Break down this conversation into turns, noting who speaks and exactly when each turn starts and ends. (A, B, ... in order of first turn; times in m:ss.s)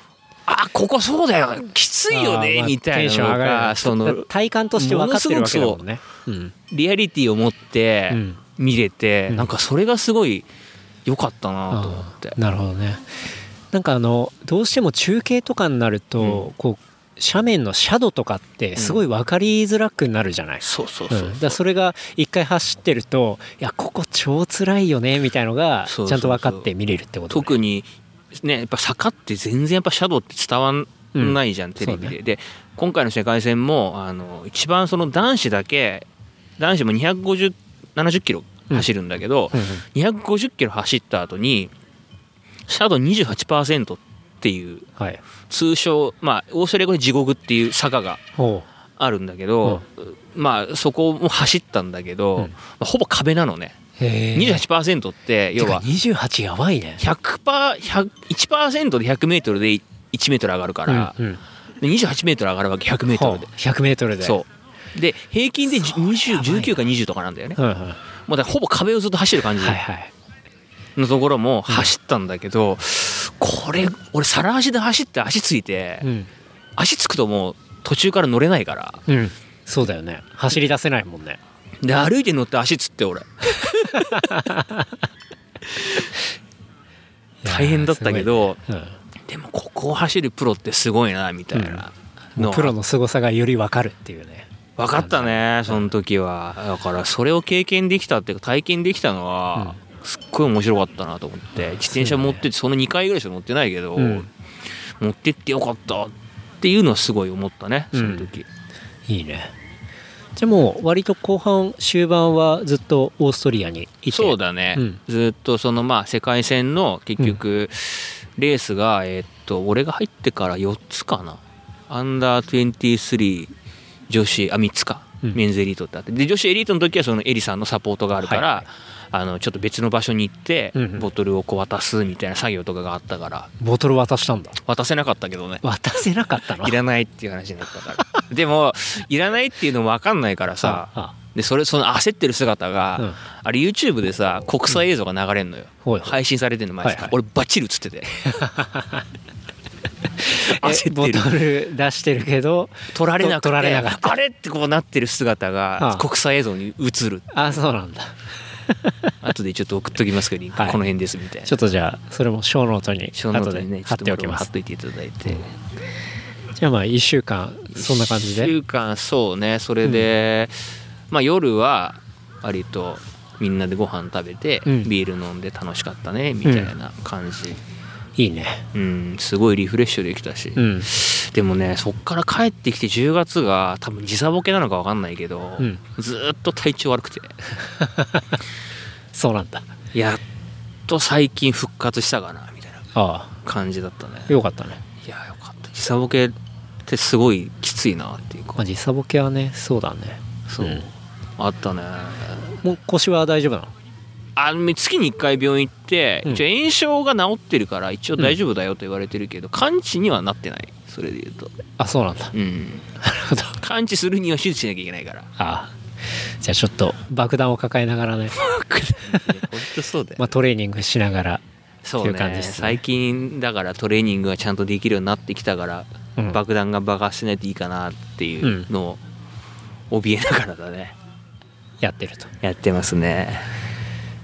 0:00.5-0:05.8 A
0:02.1-0:06.5 B
0:06.7-0:10.5 A
0:08.1-0:08.4 B
0:11.0-0:12.4 A
0:11.7-0:13.0 B
0:13.7-0:27.6 B
0:16.2-0:16.5 A
0:18.8-0:19.0 A
0:20.6-0:21.6 A
0:25.9-0:26.7 A
0:27.3-0:36.0 A
0:31.1-0:32.2 B
0:36.6-0:41.7 A
0:39.5-0:39.8 B
0:42.7-0:44.9 A
0:45.5-0:48.2 A
0:48.4-0:48.7 B
0:49.0-0:53.8 A
0:54.0-0:54.6 B
0:54.3-0:55.8 A
0:55.6-0:57.0 B
0:57.0-1:01.2 A
1:00.9-1:01.4 B
1:01.8-1:03.5 A
1:03.1-1:04.4 B
1:04.2-1:07.6 A
1:05.7-1:06.8 B
1:07.6-1:08.0 B
1:08.3-1:09.8 A
1:09.6-1:10.1 B
1:11.0-1:16.1 A
1:16.0-1:16.3 B
1:16.8-1:19.0 A
1:19.1-1:21.4 B
1:21.8-1:24.4 A
1:23.9-1:25.0 B
1:25.8-1:26.0 A
1:27.4-1:29.0 B
1:27.4-1:28.6 A
1:29.3-1:32.7 A
1:31.5-1:31.8 B
1:32.4-1:35.9 B
1:34.8-1:44.3 A
1:41.6-1:42.4 B
1:44.0-1:44.3 B
1:45.0-1:48.5 A
1:47.9-1:48.3 B
1:49.1-1:49.5 B
1:50.4-1:55.0 B
1:54.1-2:03.5 A
2:04.1-2:13.5 A
2:08.2-2:08.6 B
2:10.7-2:11.1 B
2:13.6-2:14.6 B
2:14.6-2:15.6 A
2:15.6-2:16.8 B
2:16.6-2:28.4 A
2:20.6-2:21.1 B
2:25.8-2:26.2 B
2:26.8-2:27.1 B
2:28.3-2:29.0 B
2:30.2-2:34.2 B
2:30.4-2:31.4 A
2:32.9-2:37.5 A
2:35.8-2:36.1 B
2:37.3-2:39.1 B
2:39.2-2:41.6 A
2:41.4-2:44.5 B
2:43.1-2:45.5 A
2:46.6-2:48.5 B
2:47.7-2:50.6 A
2:51.1-2:57.6 A
2:54.6-2:54.9 B
2:56.4-2:56.7 B
2:58.2-2:58.6 B
2:58.7-3:07.5 A
3:00.6-3:00.9 B
3:07.8-3:08.4 B
3:09.1-3:09.7 B
3:09.9-3:10.2 A
3:10.9-3:12.9 A
3:12.9-3:13.3 B
3:13.4-3:14.4 A
3:14.3-3:14.8 B
3:15.0-3:16.3 A
3:16.8-3:18.6 A
3:18.6-3:20.9 B
3:20.5-3:22.5 A
3:22.6-3:23.7 B
3:24.4-3:31.5 A
3:31.8-3:32.3 B
3:32.3-3:32.9 A
3:33.0-3:33.6 B
3:33.6-3:35.3 A
3:35.4-3:35.7 B
3:36.4-3:38.4 B
3:38.4-3:40.2 A
3:39.1-3:39.5 B
3:40.2-3:41.4 B
3:41.8-3:49.0 A
3:42.0-3:42.8 B
3:48.4-3:48.7 B
3:49.9-3:50.9 A
3:51.8-3:52.3 B
3:52.4-3:53.5 A